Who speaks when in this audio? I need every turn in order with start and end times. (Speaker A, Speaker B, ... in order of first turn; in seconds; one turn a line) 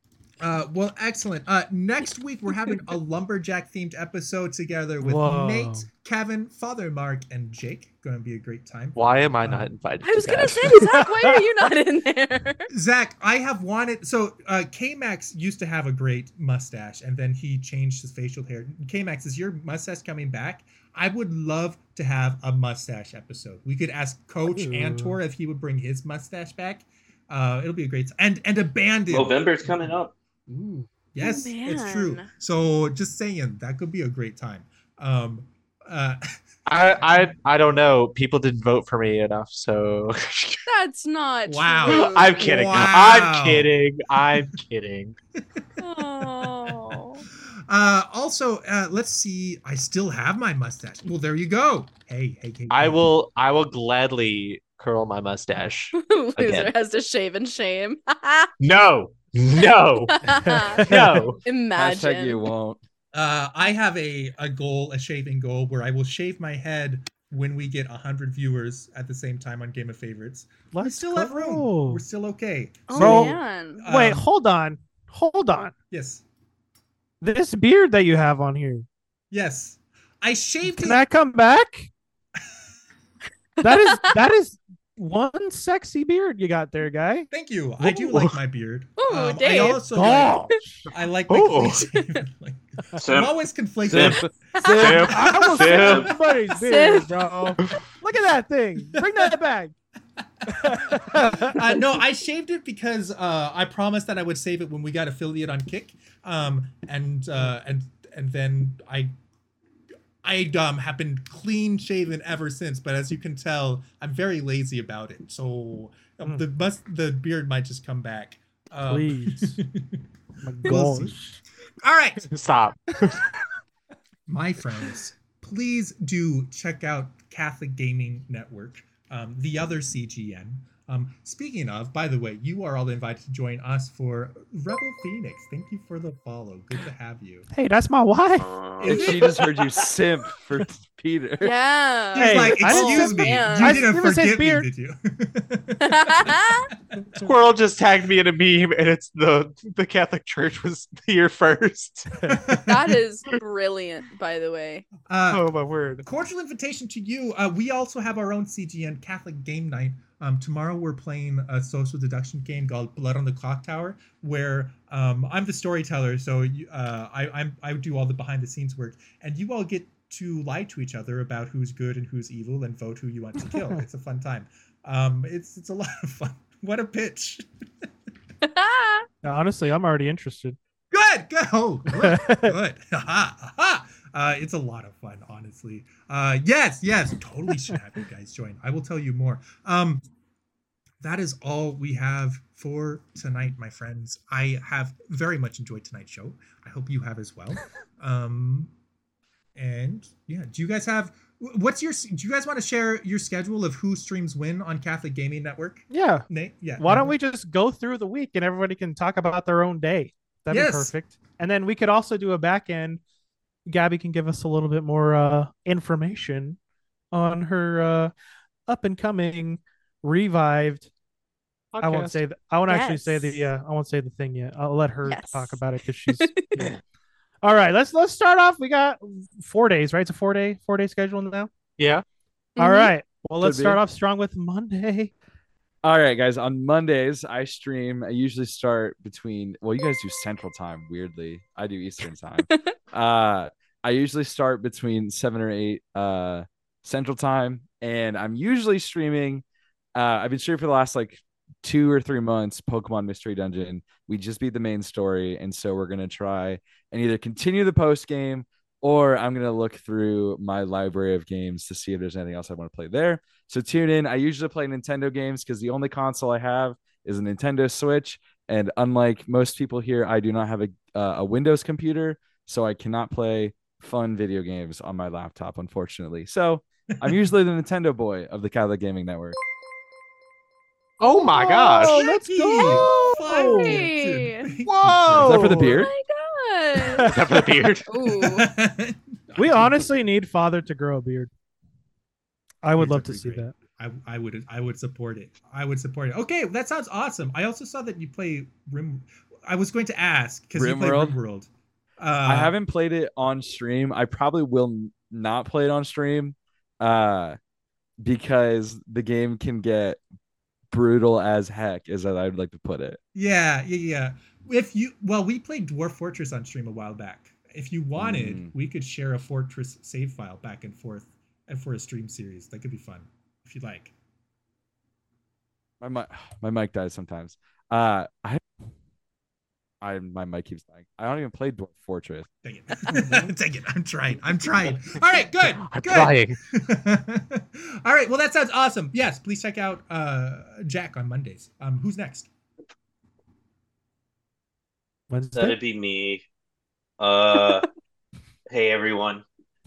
Speaker A: 0.4-9.7
Speaker B: 5.0-5.9
Speaker C: 8.9-10.8
Speaker D: 10.0-12.7
Speaker B: 10.8-11.3
Speaker A: 12.7-29.9
Speaker B: 24.4-25.2
Speaker E: 29.1-30.1
Speaker A: 30.5-36.2
Speaker D: 31.2-32.3
Speaker C: 36.7-40.6
Speaker D: 40.7-42.5
Speaker A: 41.5-43.7
Speaker C: 41.9-45.1
Speaker D: 45.8-47.2
Speaker A: 46.2-46.5
Speaker A: 47.7-53.0
Speaker C: 52.7-55.9
Speaker D: 55.9-58.5
Speaker C: 58.6-60.2
Speaker D: 60.1-62.4
Speaker B: 60.4-61.2
Speaker C: 60.8-61.4
Speaker F: 61.7-62.8
Speaker A: 63.1-74.2
Speaker B: 70.7-72.0
Speaker D: 72.9-73.8
Speaker B: 72.9-75.7
Speaker A: 75.9-76.2
Speaker B: 77.2-78.8
Speaker A: 79.3-81.0
Speaker B: 80.7-81.9
Speaker B: 83.6-87.3
Speaker A: 87.3-96.1
Speaker D: 89.0-89.8
Speaker B: 89.9-90.9
Speaker C: 91.3-91.8
Speaker E: 93.0-93.4
Speaker F: 93.8-95.2
Speaker E: 93.9-94.3
Speaker D: 94.6-94.9
Speaker C: 94.8-96.1
Speaker B: 95.0-99.7
Speaker E: 95.7-96.1
Speaker D: 96.5-97.2
Speaker B: 100.5-101.6
Speaker A: 100.6-109.1
Speaker A: 110.2-120.0
Speaker B: 118.8-119.6
Speaker B: 120.4-121.4
Speaker A: 120.6-121.2
Speaker A: 121.8-122.3
Speaker C: 122.3-123.3
Speaker A: 124.3-137.5
Speaker B: 137.5-138.5
Speaker E: 138.4-139.7
Speaker A: 138.8-139.4
Speaker F: 138.8-141.5
Speaker D: 141.4-143.9
Speaker A: 142.1-146.3
Speaker B: 142.1-144.7
Speaker D: 145.8-146.7
Speaker B: 147.0-147.3
Speaker C: 147.2-152.1
Speaker A: 152.3-153.0
Speaker D: 152.7-154.9
Speaker A: 155.1-155.5
Speaker C: 155.3-156.1
Speaker A: 156.0-177.4
Speaker B: 173.5-173.8
Speaker D: 178.4-179.0
Speaker B: 179.2-180.6
Speaker A: 180.9-190.1
Speaker B: 181.9-182.5
Speaker A: 191.0-198.7
Speaker A: 199.6-207.1
Speaker B: 205.9-206.2
Speaker B: 206.8-213.0
Speaker A: 210.5-210.9
Speaker B: 213.7-216.6
Speaker B: 217.1-218.1
Speaker B: 218.7-220.9
Speaker C: 221.7-222.2
Speaker B: 221.8-226.7
Speaker D: 222.7-223.5
Speaker D: 225.1-226.7
Speaker B: 227.4-231.5
Speaker C: 231.8-232.0
Speaker D: 232.6-232.9
Speaker B: 232.6-235.1
Speaker F: 233.4-233.8
Speaker F: 235.8-249.4
Speaker F: 249.9-279.4
Speaker C: 281.0-282.0
Speaker D: 281.3-284.5
Speaker B: 281.7-283.8
Speaker A: 281.8-285.9
Speaker B: 284.6-285.7
Speaker F: 285.2-285.9
Speaker D: 285.8-287.1
Speaker B: 286.8-287.5
Speaker C: 287.0-287.9
Speaker D: 287.9-288.5
Speaker A: 288.1-289.9
Speaker B: 289.4-291.3
Speaker B: 292.6-293.5
Speaker A: 292.7-302.5
Speaker F: 300.5-301.2
Speaker F: 302.2-307.4
Speaker F: 308.0-310.0
Speaker F: 310.7-313.0
Speaker A: 313.1-323.9
Speaker F: 318.0-318.5
Speaker F: 325.8-328.4
Speaker F: 329.8-332.3
Speaker A: 332.4-342.3
Speaker C: 335.6-336.4
Speaker B: 345.1-345.6
Speaker E: 345.3-346.2
Speaker E: 347.0-347.7
Speaker E: 348.5-349.2